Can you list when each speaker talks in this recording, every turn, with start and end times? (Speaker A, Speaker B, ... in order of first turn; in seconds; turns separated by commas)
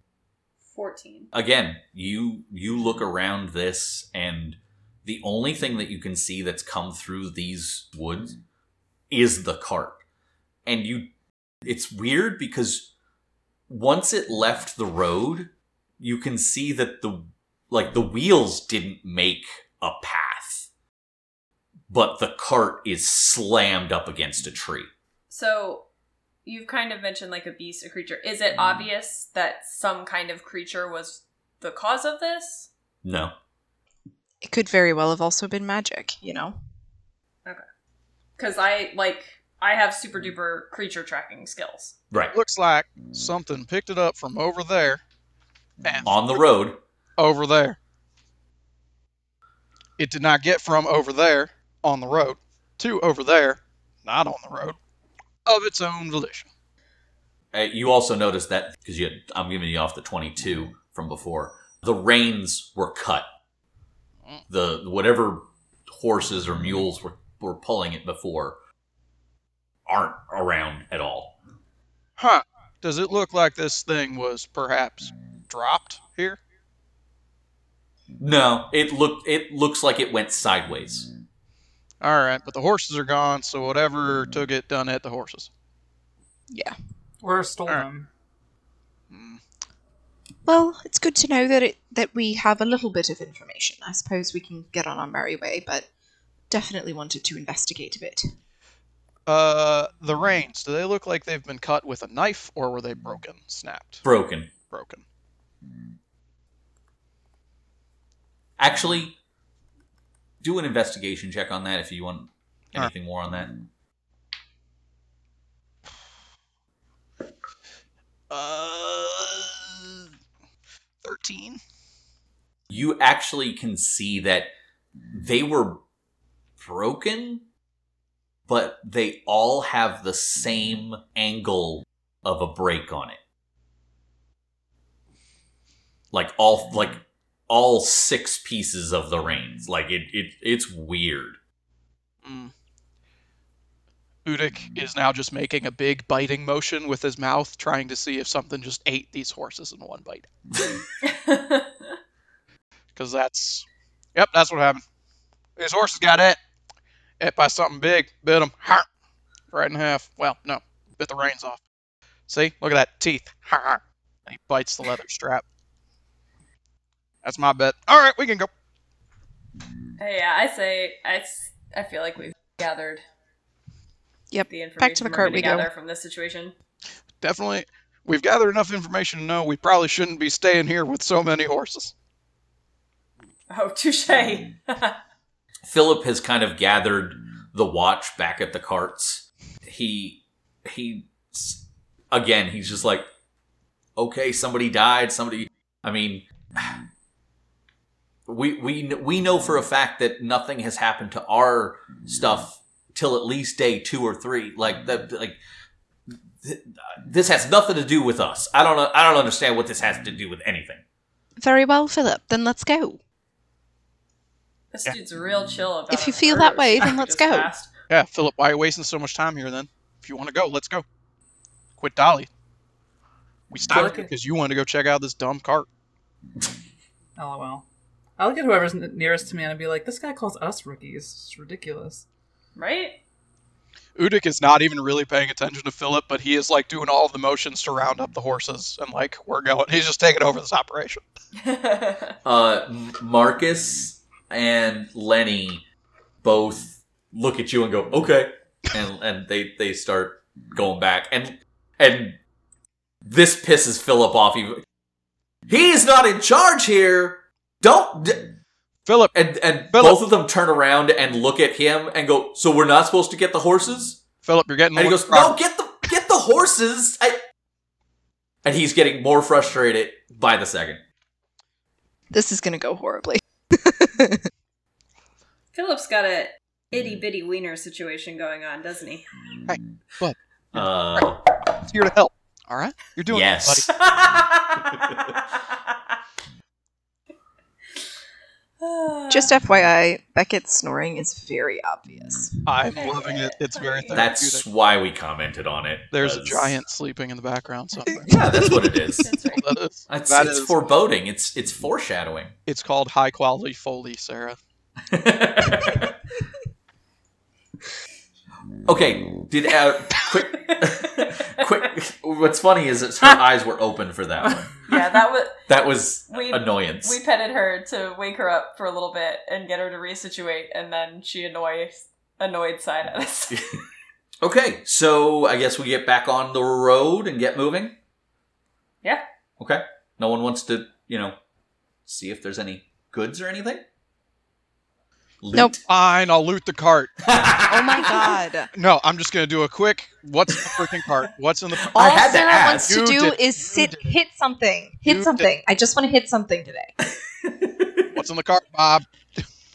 Speaker A: 0.7-1.3, Speaker B: 1.3-8.4, Speaker B: 9.1-10.0, Speaker B: 10.7-11.1, Speaker B: 11.6-12.9, Speaker B: 13.7-20.7, Speaker B: 21.9-24.9, Speaker A: 25.3-25.9, Speaker A: 26.4-32.7, Speaker B: 33.0-33.3, Speaker C: 34.4-36.6, Speaker A: 38.4-42.0, Speaker B: 42.1-42.4, Speaker D: 42.3-45.0, Speaker D: 45.8-46.4, Speaker B: 46.0-46.8, Speaker D: 47.2-47.8, Speaker D: 50.0-54.8, Speaker D: 55.5-56.5, Speaker B: 57.5-63.3, Speaker B: 64.5-68.6, Speaker B: 69.9-71.3, Speaker D: 72.2-76.4, Speaker B: 78.2-81.1, Speaker D: 82.0-85.5, Speaker C: 86.5-86.8, Speaker E: 87.2-88.1, Speaker D: 89.1-89.4, Speaker C: 90.5-95.9, Speaker C: 96.5-98.3, Speaker D: 99.3-104.0, Speaker B: 104.0-104.5, Speaker D: 104.7-105.0, Speaker B: 108.6-109.2, Speaker B: 110.4-113.5, Speaker D: 118.3-120.0, Speaker D: 121.0-121.6, Speaker B: 122.7-124.5, Speaker B: 125.1-125.8, Speaker B: 126.6-127.5, Speaker B: 128.5-133.2, Speaker B: 136.1-141.4, Speaker D: 142.2-142.5, Speaker D: 144.2-150.3, Speaker A: 151.0-151.7, Speaker D: 152.9-154.8, Speaker D: 155.6-156.4, Speaker D: 157.2-158.9, Speaker D: 159.5-161.6, Speaker D: 162.3-165.4, Speaker D: 167.2-168.5, Speaker A: 170.0-173.0, Speaker C: 174.3-175.7, Speaker A: 174.5-176.5, Speaker D: 177.2-181.9, Speaker A: 183.5-185.0, Speaker B: 185.7-193.1, Speaker B: 194.0-196.8, Speaker B: 198.3-205.4, Speaker B: 206.1-210.8, Speaker C: 211.4-213.0, Speaker A: 214.7-217.7, Speaker C: 215.9-217.5, Speaker D: 217.9-220.8, Speaker D: 221.8-222.3, Speaker D: 223.5-225.7, Speaker E: 223.7-224.1, Speaker E: 227.2-227.7, Speaker E: 228.2-232.1, Speaker A: 232.6-233.0, Speaker D: 234.0-241.0, Speaker A: 241.4-242.2, Speaker B: 242.2-245.6, Speaker B: 246.2-252.2, Speaker B: 253.1-254.6, Speaker B: 255.5-258.3, Speaker D: 258.9-259.1, Speaker B: 259.1-264.0, Speaker D: 259.7-260.0, Speaker D: 264.2-265.4, Speaker B: 264.8-267.2, Speaker B: 268.4-270.8, Speaker C: 272.1-274.3, Speaker A: 275.5-279.1, Speaker D: 279.5-281.1, Speaker B: 280.5-281.2, Speaker D: 281.6-283.8, Speaker B: 283.1-283.9, Speaker A: 283.8-285.1, Speaker A: 288.6-289.3, Speaker C: 289.1-292.6, Speaker D: 292.5-294.5, Speaker A: 292.7-294.1, Speaker B: 293.9-296.6, Speaker D: 295.9-298.2, Speaker B: 298.0-299.1, Speaker A: 299.0-299.5, Speaker D: 299.3-300.6, Speaker B: 299.9-302.3, Speaker D: 302.5-304.4, Speaker B: 304.9-305.9, Speaker B: 308.7-314.5, Speaker A: 310.6-311.1, Speaker A: 314.7-315.5, Speaker B: 315.5-317.0, Speaker A: 316.1-323.4, Speaker B: 323.3-323.6, Speaker B: 324.2-327.8, Speaker B: 329.4-331.2, Speaker B: 331.9-333.6, Speaker B: 335.2-335.6, Speaker D: 335.6-337.1, Speaker B: 337.1-338.0, Speaker C: 337.5-338.5, Speaker D: 338.5-341.7, Speaker B: 341.6-342.8, Speaker C: 341.7-346.7, Speaker D: 342.6-344.0, Speaker D: 344.9-345.3, Speaker D: 347.9-348.9